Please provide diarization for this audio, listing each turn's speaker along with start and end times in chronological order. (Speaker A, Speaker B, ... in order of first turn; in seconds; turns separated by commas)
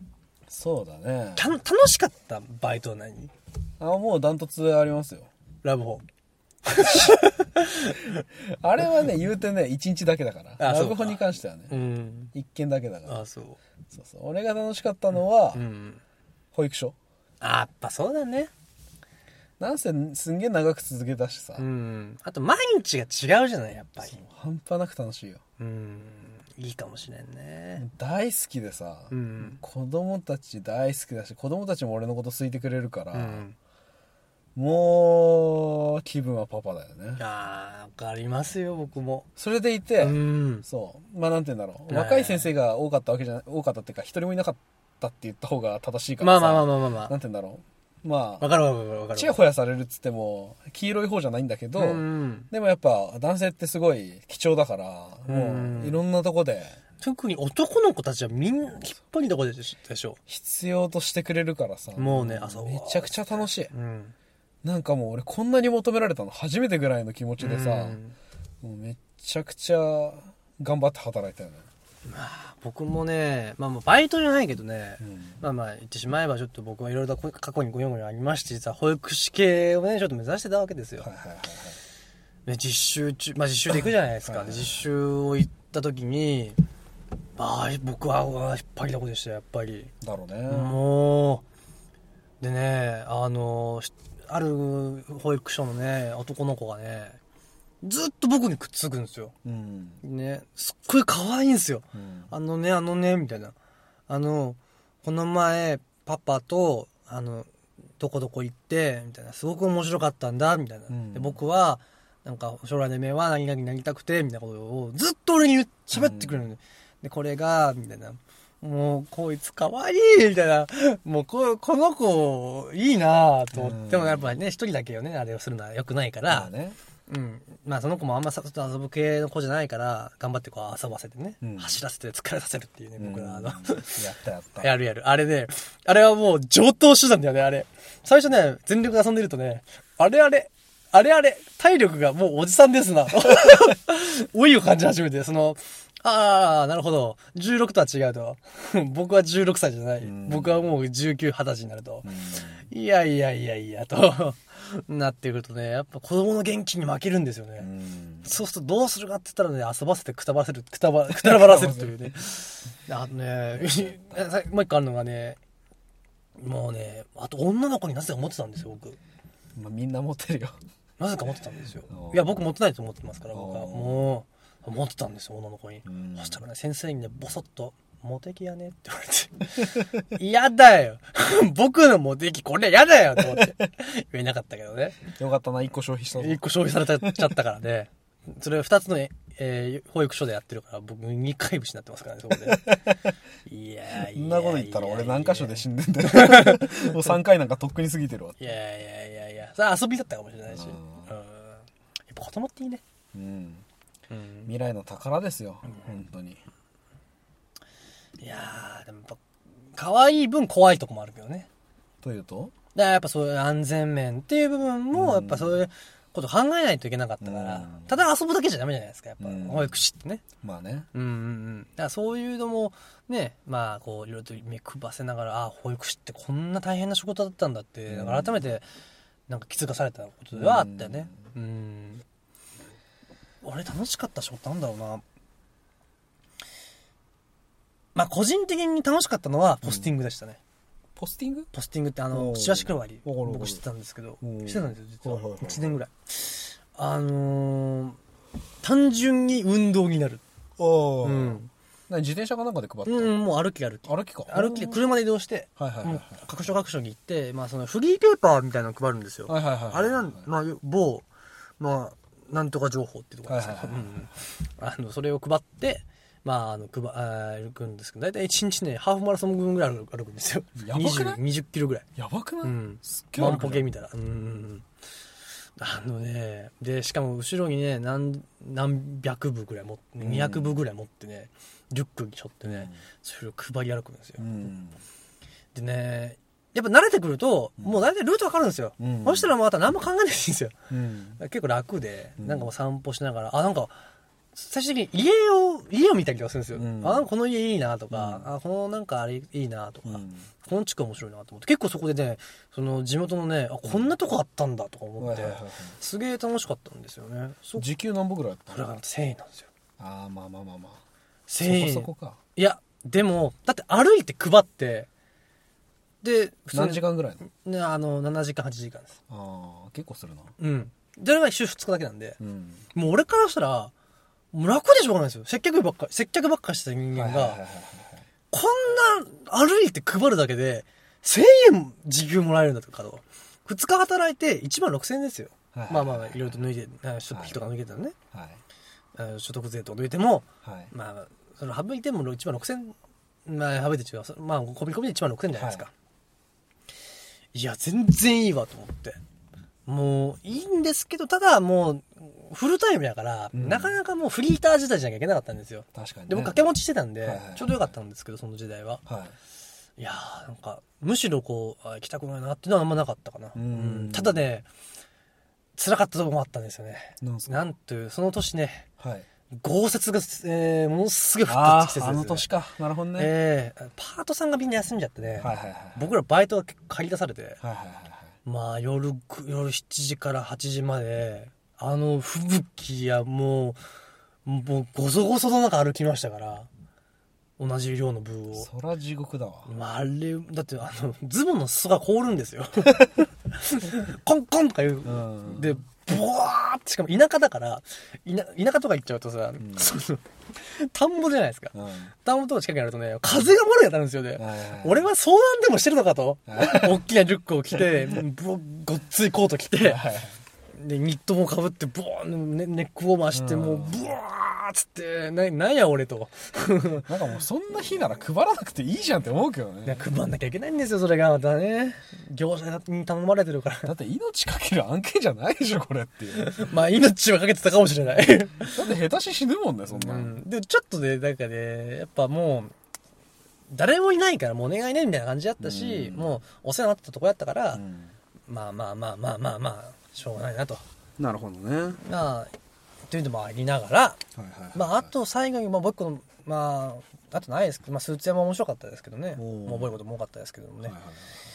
Speaker A: 0.5-1.5, Speaker B: 1.4-3.3, Speaker A: 3.8-5.3, Speaker B: 5.6-6.0, Speaker B: 6.6-8.2, Speaker A: 8.4-11.8, Speaker B: 10.6-12.3, Speaker A: 12.3-13.2, Speaker B: 13.1-13.6, Speaker A: 13.9-15.6, Speaker B: 15.5-16.0, Speaker A: 16.5-16.9, Speaker B: 17.4-18.5, Speaker A: 19.6-21.6, Speaker B: 21.6-24.2, Speaker A: 24.1-25.4, Speaker B: 25.6-27.8, Speaker A: 27.8-33.4, Speaker B: 29.1-29.6, Speaker B: 33.1-33.5, Speaker A: 34.5-37.2, Speaker B: 37.2-39.3, Speaker A: 39.4-48.5, Speaker B: 40.0-40.6, Speaker B: 41.9-42.5, Speaker B: 46.2-47.1, Speaker B: 48.4-49.4, Speaker A: 49.1-56.8, Speaker B: 51.8-52.5, Speaker B: 55.2-56.0, Speaker B: 57.0-60.2, Speaker A: 60.3-63.7, Speaker B: 62.0-64.1, Speaker A: 64.6-68.0, Speaker B: 67.4-68.1, Speaker A: 68.6-71.7, Speaker B: 72.0-81.1, Speaker A: 75.0-75.4, Speaker A: 81.0-81.8, Speaker B: 82.5-86.6, Speaker A: 84.2-84.8, Speaker B: 87.4-89.9, Speaker A: 90.0-90.8, Speaker B: 90.5-91.4, Speaker B: 92.4-97.2, Speaker B: 97.8-99.3, Speaker A: 99.4-100.0, Speaker B: 100.0-103.5, Speaker A: 101.9-102.3, Speaker B: 104.1-107.5, Speaker B: 108.0-126.5, Speaker A: 110.9-111.4, Speaker A: 115.9-116.4, Speaker A: 123.5-124.3, Speaker A: 126.3-126.8, Speaker B: 127.1-134.0, Speaker A: 131.4-131.8, Speaker A: 133.0-134.7, Speaker B: 134.6-152.1, Speaker A: 150.0-150.6, Speaker A: 152.0-152.6, Speaker B: 152.7-157.7, Speaker A: 157.6-158.3, Speaker B: 158.2-165.4, Speaker A: 161.1-162.2, Speaker A: 163.5-164.2, Speaker B: 166.4-169.0, Speaker A: 169.5-170.6, Speaker B: 171.0-185.1, Speaker A: 171.9-172.4, Speaker A: 173.3-174.1, Speaker A: 175.8-176.4, Speaker A: 185.1-186.4, Speaker B: 186.2-192.7, Speaker A: 187.0-187.3, Speaker A: 192.4-193.0, Speaker B: 193.4-197.2, Speaker A: 194.0-198.4, Speaker B: 198.4-202.8, Speaker A: 200.5-201.1, Speaker A: 203.1-203.6, Speaker B: 204.1-204.5, Speaker A: 204.5-206.4, Speaker B: 208.2-209.2, Speaker B: 209.7-211.5, Speaker A: 212.0-212.5, Speaker B: 212.7-220.2, Speaker A: 214.9-215.6, Speaker A: 217.2-217.9, Speaker A: 219.2-219.8, Speaker A: 220.4-220.9, Speaker B: 220.9-228.6, Speaker A: 227.9-228.4, Speaker B: 229.3-232.0, Speaker A: 230.3-231.1, Speaker B: 233.4-235.0, Speaker B: 237.9-240.4, Speaker A: 239.6-239.9, Speaker A: 240.9-241.5, Speaker B: 241.5-248.0, Speaker A: 242.1-243.6, Speaker A: 244.2-245.8, Speaker B: 248.6-250.2, Speaker A: 250.6-253.2, Speaker B: 251.0-251.5, Speaker B: 252.8-261.1, Speaker A: 253.8-254.8, Speaker A: 255.6-256.2, Speaker A: 259.3-260.2, Speaker B: 261.6-271.9, Speaker A: 263.3-264.1, Speaker A: 270.6-271.2, Speaker A: 271.9-273.6, Speaker B: 272.4-274.6, Speaker B: 275.6-284.5, Speaker A: 280.0-280.6, Speaker A: 282.4-282.7, Speaker A: 284.2-284.8, Speaker B: 285.5-290.6, Speaker A: 288.8-289.3, Speaker A: 290.7-291.2, Speaker B: 291.2-293.8, Speaker A: 292.2-292.5, Speaker B: 294.3-307.7, Speaker A: 296.5-297.1, Speaker A: 297.9-298.3, Speaker A: 299.8-300.3, Speaker A: 305.0-305.8, Speaker A: 307.6-308.7, Speaker B: 308.5-309.5, Speaker A: 309.8-310.8, Speaker B: 311.3-314.9, Speaker A: 311.4-312.2, Speaker B: 316.0-319.0, Speaker A: 316.5-317.2, Speaker A: 319.1-320.3, Speaker B: 320.4-322.2, Speaker A: 322.2-322.6, Speaker B: 322.7-323.7, Speaker B: 324.3-327.4, Speaker A: 326.9-328.1, Speaker B: 328.3-337.9, Speaker A: 335.5-336.4, Speaker A: 337.1-337.4, Speaker A: 338.1-338.4, Speaker B: 338.9-345.7, Speaker A: 340.4-340.7, Speaker A: 345.4-345.6, Speaker B: 347.3-349.0, Speaker B: 349.7-358.8, Speaker A: 353.3-353.8, Speaker A: 355.7-356.4, Speaker A: 357.0-357.7, Speaker A: 358.9-359.1, Speaker B: 359.8-364.5, Speaker A: 363.3-364.2, Speaker B: 365.6-368.7, Speaker A: 367.0-367.5, Speaker A: 368.8-369.1, Speaker B: 369.3-372.3, Speaker A: 371.3-373.1, Speaker B: 373.0-377.4, Speaker A: 375.2-375.9, Speaker A: 377.4-378.1, Speaker B: 378.2-383.6, Speaker B: 384.2-386.5, Speaker B: 387.4-388.5, Speaker A: 388.4-389.5, Speaker B: 389.4-409.8, Speaker A: 394.8-395.6, Speaker A: 399.4-399.7, Speaker A: 401.5-401.9, Speaker A: 404.2-404.9, Speaker A: 406.3-406.8, Speaker A: 409.6-410.2, Speaker B: 410.5-416.9, Speaker A: 413.1-413.8, Speaker A: 416.8-419.8, Speaker B: 419.6-423.7, Speaker A: 423.6-426.5, Speaker B: 426.1-428.7, Speaker A: 428.5-430.2, Speaker B: 429.7-432.5, Speaker B: 433.5-437.6, Speaker A: 435.4-436.2, Speaker A: 437.5-437.9, Speaker B: 438.3-440.6, Speaker A: 441.0-441.8, Speaker B: 441.8-442.3, Speaker B: 442.9-444.0, Speaker A: 444.1-444.9, Speaker B: 444.5-450.7, Speaker A: 449.2-449.8, Speaker A: 450.6-451.2